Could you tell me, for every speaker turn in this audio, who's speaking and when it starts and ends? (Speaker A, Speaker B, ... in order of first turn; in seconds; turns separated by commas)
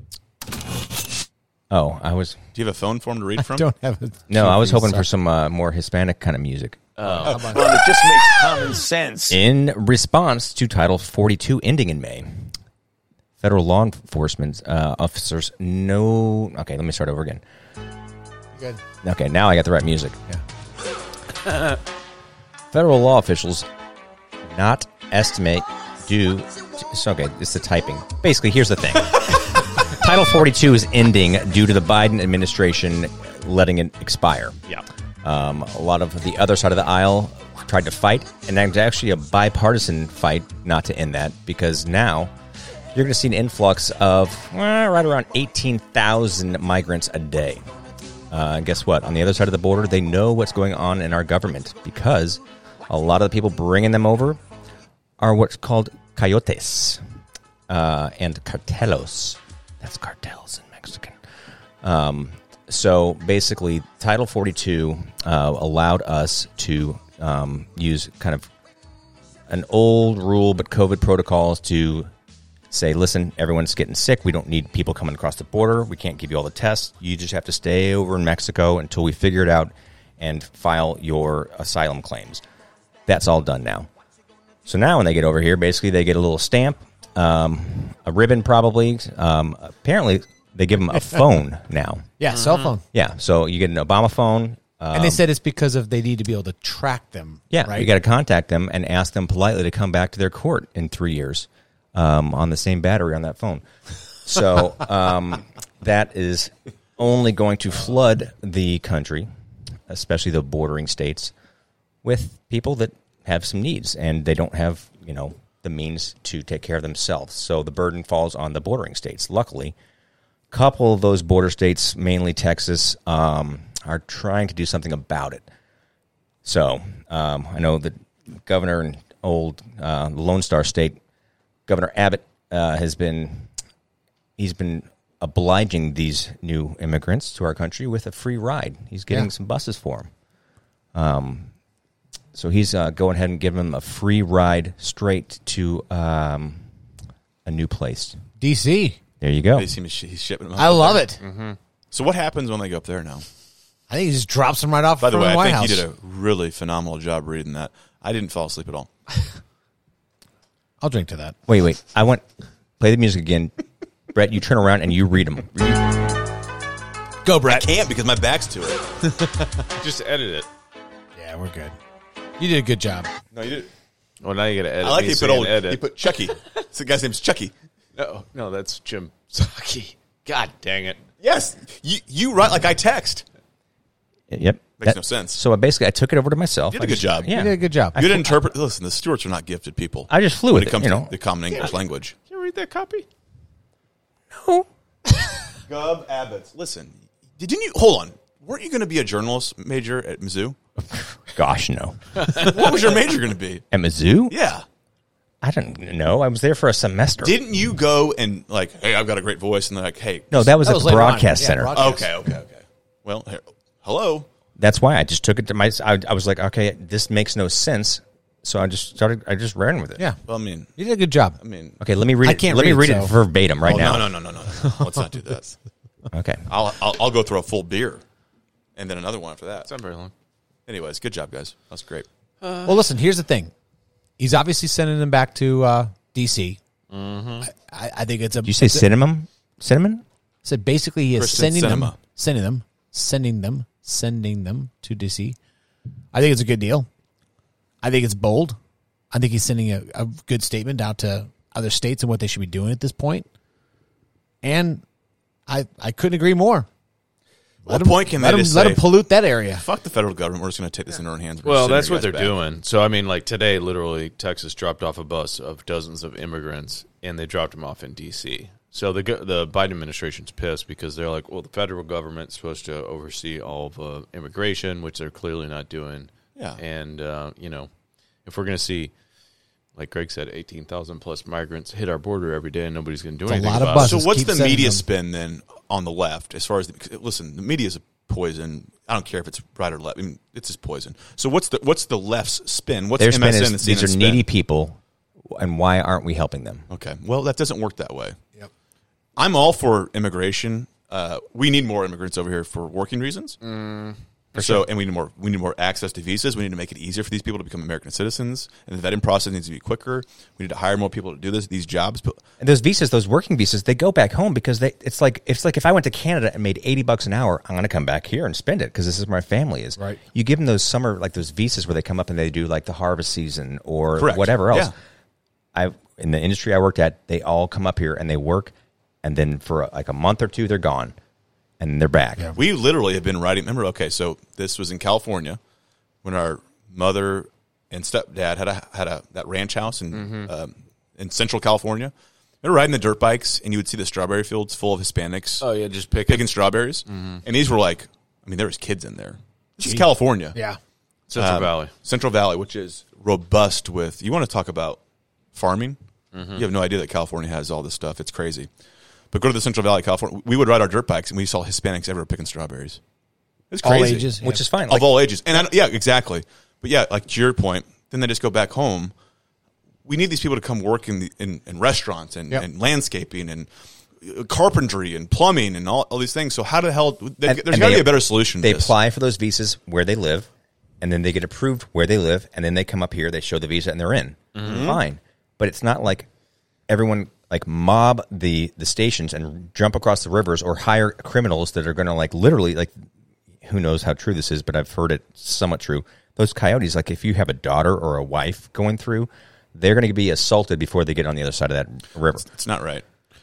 Speaker A: 1.7-2.4, Speaker B: 2.5-3.7, Speaker C: 3.4-5.1, Speaker A: 4.3-6.8, Speaker D: 7.0-7.6, Speaker C: 7.0-7.8, Speaker E: 7.3-9.4, Speaker A: 9.3-12.5, Speaker A: 13.4-17.4, Speaker C: 18.6-18.8, Speaker A: 19.0-20.2, Speaker A: 22.7-23.7, Speaker A: 24.5-34.6, Speaker A: 35.2-42.3, Speaker A: 42.9-47.6, Speaker A: 48.3-54.4, Speaker A: 55.2-57.0, Speaker A: 57.7-61.2, Speaker A: 61.8-68.5, Speaker A: 69.5-72.1, Speaker A: 72.7-82.4, Speaker A: 83.1-83.9, Speaker A: 84.7-92.1, Speaker C: 92.2-92.8, Speaker D: 92.3-92.7, Speaker A: 92.9-95.2, Speaker C: 94.9-97.9, Speaker A: 97.5-103.6, Speaker A: 104.2-109.3, Speaker A: 109.9-111.3, Speaker A: 112.0-119.8, Speaker A: 120.5-125.5, Speaker A: 126.4-131.0, Speaker A: 131.7-133.5, Speaker A: 134.4-140.1, Speaker A: 140.9-141.5, Speaker A: 142.3-146.7, Speaker A: 147.4-148.2, Speaker C: 148.4-149.0, Speaker A: 149.2-149.7, Speaker B: 149.6-151.1, Speaker C: 150.6-151.2, Speaker D: 151.2-151.6, Speaker B: 151.9-153.3, Speaker C: 153.9-155.9, Speaker B: 155.0-158.9, Speaker C: 160.8-161.4, Speaker A: 161.5-162.2, Speaker A: 162.8-163.5, Speaker A: 164.1-166.0, Speaker C: 167.2-167.7, Speaker B: 167.4-168.8, Speaker C: 169.0-169.5, Speaker D: 169.8-170.5, Speaker C: 171.2-171.8, Speaker C: 172.4-173.1, Speaker B: 173.3-173.7, Speaker D: 174.2-175.8, Speaker B: 174.8-177.5, Speaker D: 178.0-181.0, Speaker B: 181.2-183.2, Speaker A: 184.3-188.3, Speaker B: 184.8-185.4, Speaker B: 186.7-187.4, Speaker C: 187.3-188.1, Speaker B: 187.9-192.2, Speaker A: 190.1-191.1, Speaker D: 192.3-193.1, Speaker A: 194.3-194.7, Speaker B: 195.7-200.6, Speaker A: 200.8-202.4, Speaker B: 202.3-203.6, Speaker A: 203.7-204.4, Speaker B: 204.3-204.7, Speaker A: 205.4-207.4, Speaker B: 207.2-210.5, Speaker A: 210.3-212.0, Speaker C: 210.6-212.1, Speaker B: 211.7-214.3, Speaker A: 214.6-220.1, Speaker B: 220.3-220.7, Speaker C: 220.8-221.4, Speaker B: 221.4-221.8, Speaker A: 221.8-224.1, Speaker C: 222.2-223.2, Speaker B: 223.7-225.6, Speaker C: 224.6-225.0, Speaker A: 226.1-226.5, Speaker B: 226.5-228.0, Speaker B: 228.8-229.7, Speaker D: 229.7-230.1, Speaker B: 230.7-232.1, Speaker D: 232.4-232.9, Speaker C: 232.7-233.5, Speaker C: 234.2-236.6, Speaker D: 236.9-237.5, Speaker C: 237.4-238.9, Speaker A: 238.4-240.0, Speaker C: 240.4-245.4, Speaker B: 241.2-242.0, Speaker C: 246.1-246.9, Speaker C: 247.8-248.6, Speaker C: 249.1-253.3, Speaker C: 254.4-254.8, Speaker C: 255.5-256.7, Speaker C: 257.7-259.6, Speaker B: 257.7-259.0, Speaker B: 259.5-262.4, Speaker D: 261.4-277.7, Speaker D: 278.2-278.9, Speaker D: 279.8-284.0, Speaker C: 283.3-284.8, Speaker B: 283.8-294.2, Speaker A: 293.0-296.7, Speaker B: 296.7-298.2, Speaker B: 299.2-303.4, Speaker D: 303.4-304.0, Speaker A: 304.4-304.7, Speaker B: 304.4-312.2, Speaker A: 312.4-324.7, Speaker B: 324.0-324.7, Speaker A: 325.5-330.9, Speaker A: 331.6-332.3, Speaker B: 332.4-335.4, Speaker B: 336.0-345.5, Speaker D: 339.9-340.3, Speaker D: 345.4-346.3, Speaker B: 346.1-350.4, Speaker D: 346.9-347.2, Speaker C: 349.6-350.6, Speaker D: 351.1-351.7, Speaker B: 351.1-354.8, Speaker B: 355.3-355.8, Speaker D: 356.1-356.4, Speaker B: 356.4-358.5, Speaker B: 359.1-362.8, Speaker B: 363.5-364.1, Speaker C: 363.6-364.4, Speaker A: 364.2-365.0, Speaker B: 364.7-368.9, Speaker B: 369.9-378.7, Speaker A: 377.2-380.3, Speaker A: 380.8-386.1, Speaker D: 384.4-384.6, Speaker B: 384.4-384.8, Speaker A: 386.7-392.7, Speaker A: 393.4-402.3, Speaker B: 402.3-402.9